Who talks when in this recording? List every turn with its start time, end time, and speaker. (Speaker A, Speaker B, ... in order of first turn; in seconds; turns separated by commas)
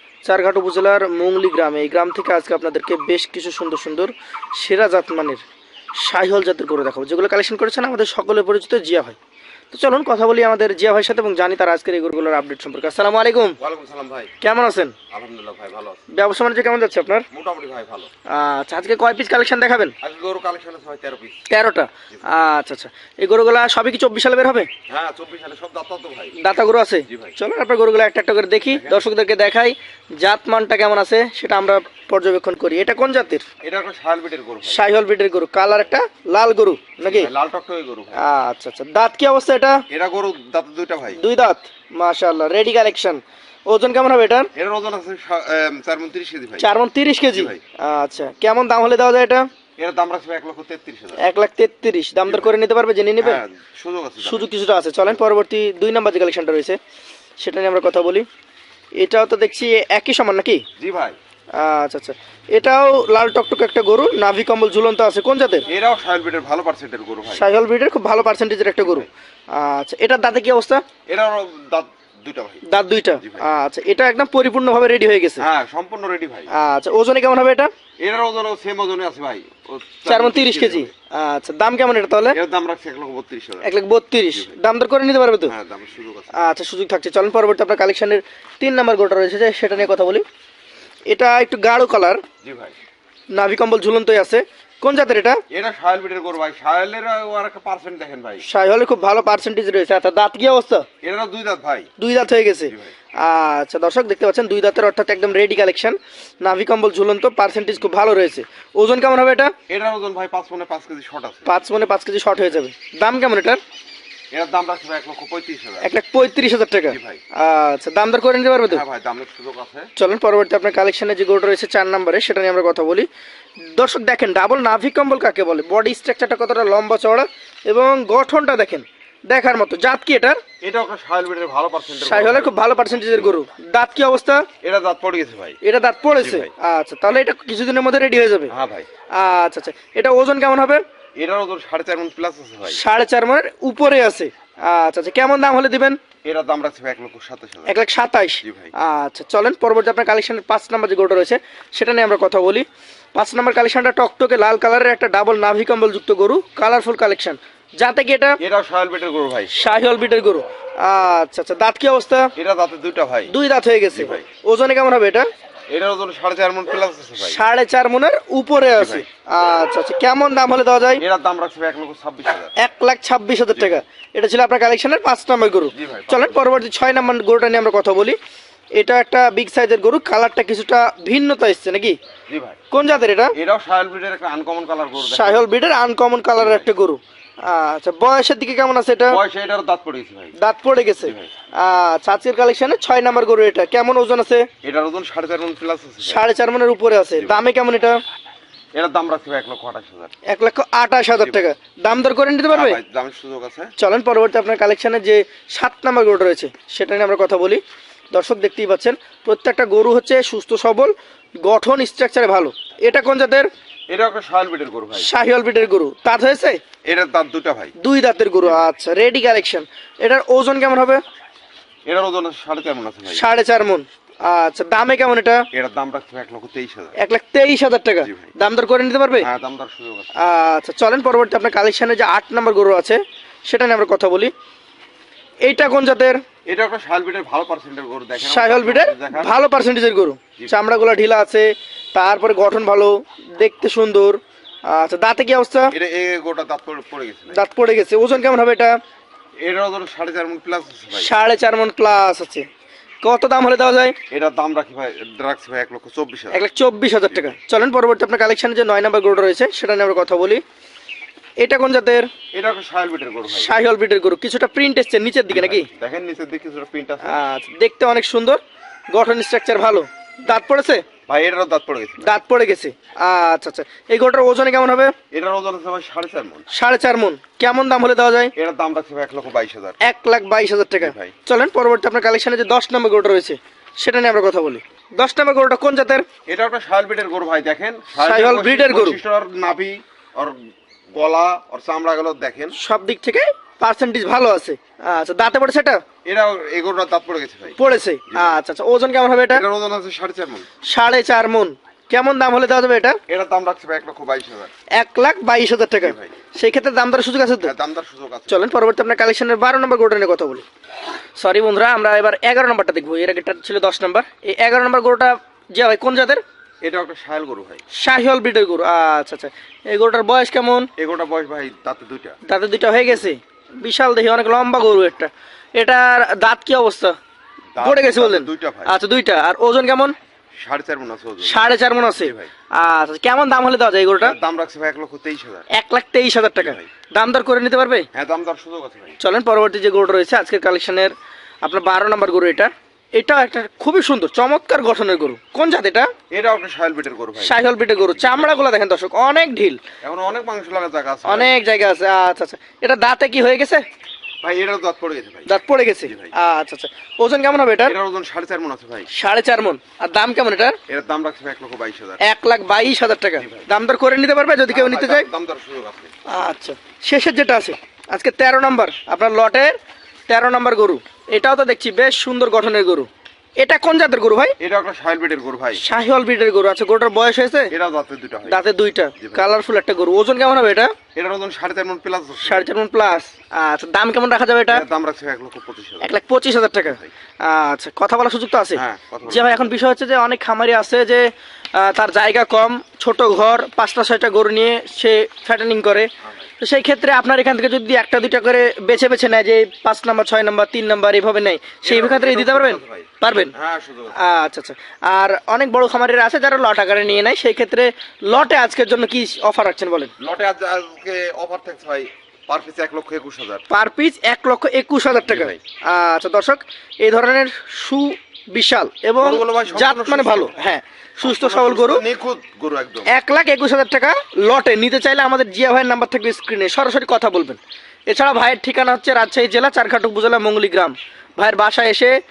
Speaker A: 0.2-5.4, Speaker A: 6.0-9.2, Speaker A: 9.7-13.6, Speaker B: 13.6-14.3, Speaker A: 14.4-14.9, Speaker B: 15.1-16.1, Speaker A: 16.1-17.2, Speaker B: 17.3-18.1, Speaker A: 18.3-19.9, Speaker B: 20.0-21.4, Speaker A: 21.5-24.7, Speaker B: 24.9-26.4, Speaker A: 26.4-33.4, Speaker B: 27.1-27.3, Speaker B: 28.7-29.0, Speaker B: 33.6-34.8, Speaker A: 34.6-37.3, Speaker B: 37.0-38.2, Speaker A: 38.1-39.8, Speaker B: 39.9-41.2, Speaker A: 41.1-44.5, Speaker B: 44.5-46.7, Speaker A: 46.6-49.5, Speaker B: 47.3-47.6, Speaker B: 49.8-51.2, Speaker A: 51.2-53.4, Speaker B: 52.2-52.5, Speaker B: 53.2-54.5, Speaker A: 54.2-56.8, Speaker A: 57.4-58.2, Speaker A: 59.0-60.6, Speaker B: 60.8-61.2, Speaker A: 61.5-65.7, Speaker B: 65.7-67.5, Speaker A: 67.3-70.8, Speaker B: 71.1-72.6, Speaker A: 72.7-75.4, Speaker B: 73.2-73.5, Speaker B: 75.4-76.5, Speaker A: 76.5-77.7, Speaker B: 78.0-80.9, Speaker A: 80.0-82.4, Speaker B: 82.3-83.7, Speaker A: 83.6-85.5, Speaker B: 84.3-84.6, Speaker B: 85.5-86.3, Speaker A: 86.3-90.2, Speaker A: 91.1-92.2, Speaker B: 92.4-92.8, Speaker A: 93.3-95.4, Speaker B: 95.5-98.4, Speaker A: 98.4-100.9, Speaker B: 101.0-101.9, Speaker A: 102.0-109.5, Speaker B: 109.7-111.5, Speaker A: 111.5-113.6, Speaker B: 114.3-115.9, Speaker A: 115.8-118.8, Speaker B: 116.9-117.2, Speaker B: 118.7-119.9, Speaker A: 120.0-123.1, Speaker A: 123.6-130.4, Speaker B: 130.6-133.4, Speaker A: 132.0-134.5, Speaker B: 134.6-135.6, Speaker A: 135.6-138.5, Speaker B: 136.2-136.5, Speaker B: 138.5-138.9, Speaker A: 139.2-140.8, Speaker B: 141.2-142.8, Speaker A: 142.7-146.0, Speaker B: 146.2-147.8, Speaker A: 147.7-158.4, Speaker B: 148.4-148.7, Speaker B: 158.4-159.5, Speaker A: 159.5-162.3, Speaker B: 162.3-163.3, Speaker A: 163.3-165.3, Speaker B: 163.9-164.2, Speaker B: 165.7-167.4, Speaker A: 167.2-171.0, Speaker B: 168.8-169.0, Speaker B: 171.0-172.5, Speaker A: 172.6-178.2, Speaker B: 173.5-173.8, Speaker B: 175.7-176.4, Speaker A: 178.8-182.0, Speaker B: 182.3-182.6, Speaker A: 182.7-183.3, Speaker B: 183.3-185.5, Speaker A: 185.0-189.2, Speaker B: 186.4-186.7, Speaker B: 189.1-190.3, Speaker A: 190.3-194.5, Speaker B: 191.0-191.3, Speaker B: 194.6-196.2, Speaker A: 196.0-198.0, Speaker B: 197.2-197.5, Speaker B: 198.7-200.1, Speaker A: 200.3-202.8, Speaker B: 201.2-201.5, Speaker B: 202.5-203.7, Speaker A: 203.8-207.6, Speaker A: 208.1-213.5, Speaker B: 213.9-215.1, Speaker A: 214.9-216.6, Speaker B: 216.8-217.7, Speaker A: 217.8-221.0, Speaker B: 221.8-223.2, Speaker A: 223.1-225.4, Speaker B: 225.5-226.9, Speaker A: 227.0-229.3, Speaker B: 228.0-228.3, Speaker B: 229.2-230.1, Speaker A: 230.2-234.3, Speaker A: 235.4-236.2, Speaker B: 236.4-239.3, Speaker A: 238.2-245.7, Speaker B: 245.7-247.4, Speaker A: 247.3-248.7, Speaker B: 249.4-251.1, Speaker A: 250.9-252.5, Speaker A: 253.0-254.0, Speaker B: 254.1-256.4, Speaker A: 256.3-260.4, Speaker B: 257.1-257.4, Speaker A: 261.4-262.1, Speaker B: 262.3-263.5, Speaker A: 263.3-265.7, Speaker B: 265.3-267.2, Speaker A: 267.0-268.4, Speaker A: 268.9-270.9, Speaker B: 271.1-272.1, Speaker A: 272.0-274.9, Speaker B: 275.1-276.4, Speaker A: 276.5-278.3, Speaker B: 278.4-279.8, Speaker A: 279.8-286.1, Speaker B: 280.8-281.1, Speaker B: 286.3-292.6, Speaker A: 287.9-289.0, Speaker A: 292.5-295.8, Speaker B: 296.0-298.4, Speaker A: 297.6-299.4, Speaker B: 299.3-300.5, Speaker A: 300.7-303.0, Speaker B: 303.1-304.5, Speaker A: 304.7-307.5, Speaker B: 305.8-306.1, Speaker B: 307.4-308.5, Speaker A: 308.3-310.4, Speaker A: 311.2-316.2, Speaker B: 316.6-317.6, Speaker A: 317.7-320.7, Speaker B: 320.8-322.2, Speaker A: 322.2-327.0, Speaker B: 327.5-328.7, Speaker A: 327.6-329.9, Speaker B: 330.4-332.3, Speaker A: 331.2-334.1, Speaker B: 334.0-335.5, Speaker A: 335.5-337.9, Speaker B: 336.4-336.7, Speaker B: 337.9-339.0, Speaker A: 339.0-345.9, Speaker B: 346.1-347.4, Speaker A: 347.2-349.6, Speaker B: 347.9-348.3, Speaker B: 349.8-351.4, Speaker A: 351.0-353.6, Speaker B: 354.2-355.3, Speaker A: 355.3-357.8, Speaker B: 355.9-356.1, Speaker B: 357.6-358.9, Speaker A: 358.9-360.6, Speaker B: 360.7-362.0, Speaker A: 362.0-365.1, Speaker B: 363.2-363.5, Speaker B: 364.5-365.9, Speaker A: 366.1-369.5, Speaker A: 370.1-374.4, Speaker B: 374.4-375.6, Speaker A: 375.6-377.5, Speaker B: 377.5-378.4, Speaker A: 378.3-380.7, Speaker B: 379.0-379.2, Speaker B: 380.9-382.5, Speaker A: 382.2-384.6, Speaker B: 384.5-386.0, Speaker A: 385.8-403.3, Speaker B: 386.6-386.9, Speaker B: 388.5-389.5, Speaker B: 401.6-404.1, Speaker A: 403.9-409.9, Speaker B: 410.0-413.4, Speaker A: 413.5-421.8, Speaker B: 415.0-415.4, Speaker B: 419.0-420.3, Speaker B: 421.0-422.9, Speaker A: 422.9-432.0